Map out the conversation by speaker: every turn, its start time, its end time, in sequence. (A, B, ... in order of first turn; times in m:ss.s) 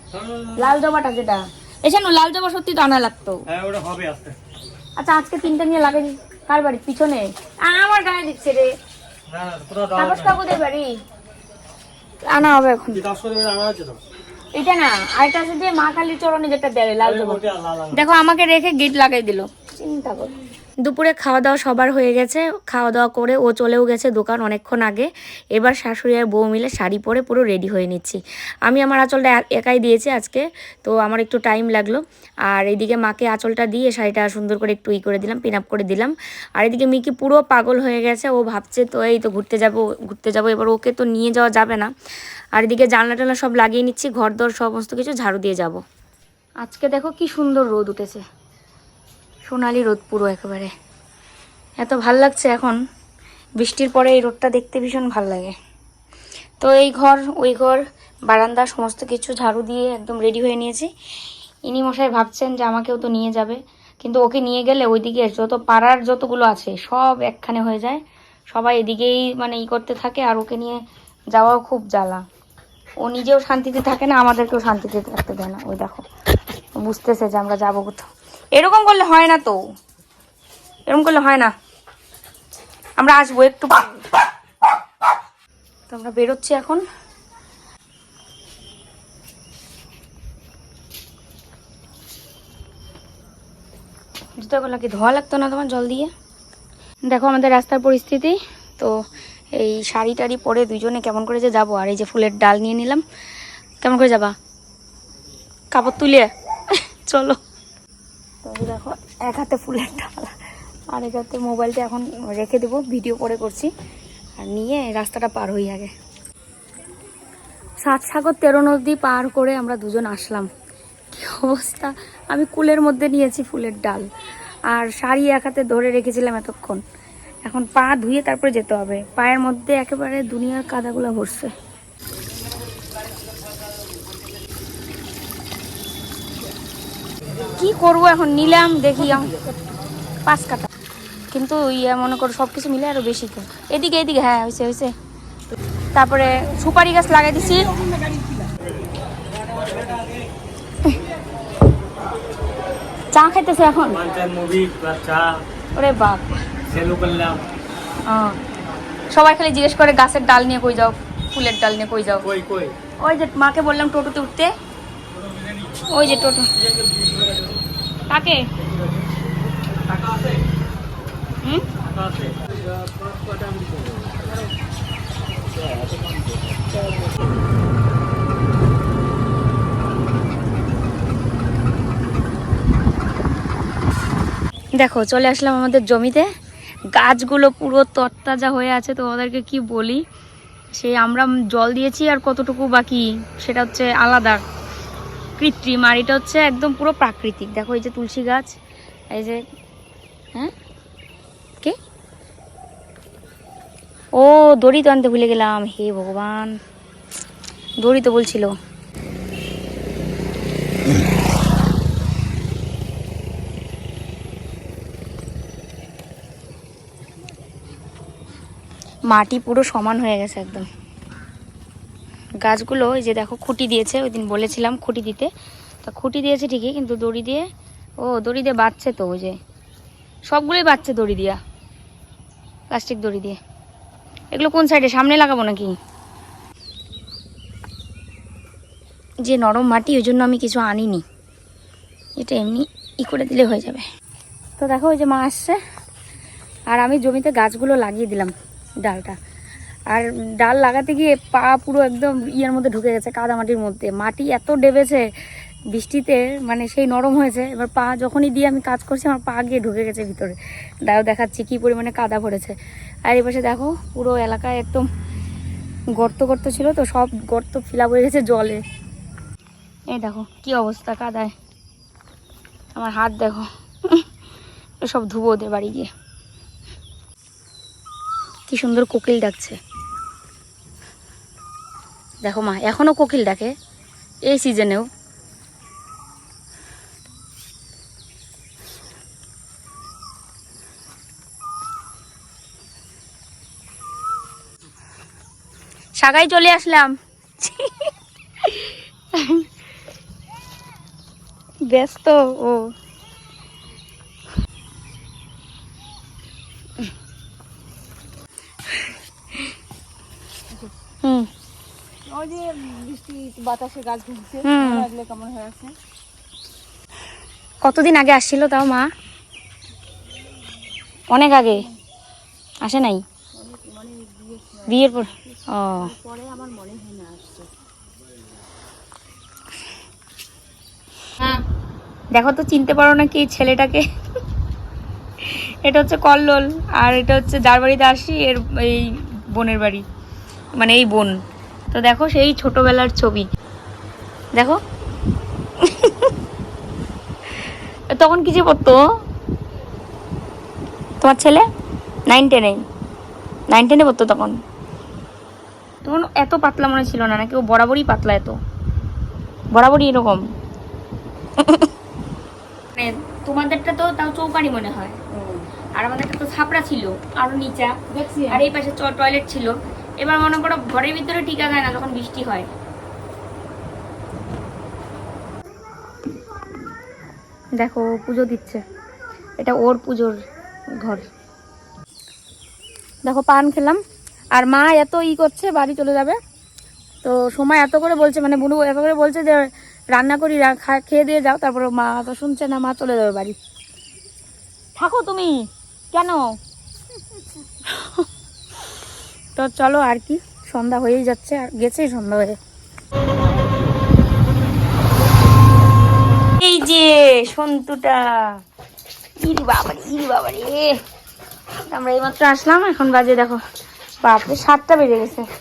0:00.2-0:00.5 A
0:00.5-0:03.5 B
0:03.5-0:04.4 A
0:05.0-0:08.7 B
0:09.3-0:10.4 A
0:09.9-0:11.0 B
0:12.2-0:13.1 B
0:13.0-0:14.0 A
0:14.5-0:41.9 B
0:17.1-0:18.0 A
0:42.6-0:45.8 B
0:46.6-0:48.2 B
0:49.5-0:50.7 B
0:51.8-0:52.8 B
0:53.6-0:55.6 B
0:56.6-1:00.9 B
1:01.7-1:12.2 B
1:13.0-1:16.1 B
1:16.7-1:19.6 B
1:20.9-1:21.5 B
1:23.0-1:24.2 B
1:25.9-1:26.8 B
1:34.4-1:36.1 B
1:37.1-1:39.0 B
1:39.6-1:43.0 B
1:43.8-1:44.4 B
1:45.7-1:47.4 B
1:48.4-1:50.4 B
1:50.9-1:53.7 B
1:54.4-1:55.9 B
1:57.8-2:00.5 B
2:01.1-2:04.1 B
2:04.7-2:06.8 B
2:07.5-2:11.5 B
2:17.4-2:19.4 B
2:20.3-2:20.7 B
2:21.3-2:24.9 B
2:25.9-2:27.8 B
2:33.1-2:34.1 B
2:33.9-2:35.4 A
2:35.8-2:36.4 B
2:36.7-2:37.4 A
2:38.1-2:38.4 B
2:39.1-2:42.3 B
2:42.2-2:42.8 A
2:43.0-2:44.5 B
2:45.9-2:46.5 B
2:48.1-2:48.5 B
2:49.8-2:50.3 A
2:51.4-2:51.7 B
2:51.8-2:54.1 A
3:04.8-3:06.3 B
3:06.9-3:10.0 B
3:10.7-3:14.4 B
3:15.4-3:18.6 B
3:19.1-3:19.4 B
3:24.2-3:26.6 B
3:27.8-3:28.5 B
3:39.1-3:40.7 B
3:42.4-3:45.3 B
3:45.8-3:47.5 B
3:48.0-3:49.4 B
3:50.3-3:51.4 B
3:52.7-3:53.4 B
3:54.3-3:55.8 B
3:59.2-4:01.0 B
4:02.2-4:03.9 B
4:04.6-4:05.6 B
4:06.7-4:09.2 B
4:09.9-4:15.1 B
4:15.7-4:24.9 B
4:26.0-4:28.6 B
4:29.9-4:31.3 B
4:32.8-4:34.1 B
4:34.8-4:35.9 B
4:38.5-4:39.6 B
4:42.2-4:43.5 B
4:44.3-4:44.9 B
4:56.0-4:57.9 B
4:58.4-4:59.5 B
5:01.6-5:02.7 B
5:08.7-5:09.5 B
5:11.0-5:11.3 B
5:12.2-5:14.2 C
5:14.4-5:14.9 B
5:14.9-5:15.7 C
5:17.6-5:18.9 B
5:21.1-5:21.7 B
5:22.6-5:23.0 B
5:24.7-5:25.9 B
5:32.1-5:33.8 B
5:35.2-5:39.8 B
5:40.6-5:41.2 B
5:41.7-5:43.3 B
5:44.3-5:44.6 B
5:45.6-5:46.1 B
5:47.3-5:48.8 B
5:51.0-5:51.5 B
5:52.1-5:52.6 B
5:53.5-5:54.4 B
5:55.8-5:58.4 B
5:59.5-6:00.3 B
6:01.4-6:01.7 B
6:02.7-6:12.5 B
6:17.6-6:18.6 B
6:19.4-6:20.2 B
6:20.7-6:21.1 B
6:23.0-6:23.8 B
6:24.4-6:26.2 B
6:27.0-6:33.4 B
6:34.8-6:36.4 B
6:37.6-6:38.1 B
6:39.4-6:42.4 B
6:46.4-6:48.4 B
6:49.2-6:50.8 B
6:51.7-6:53.4 B
6:54.0-6:55.3 B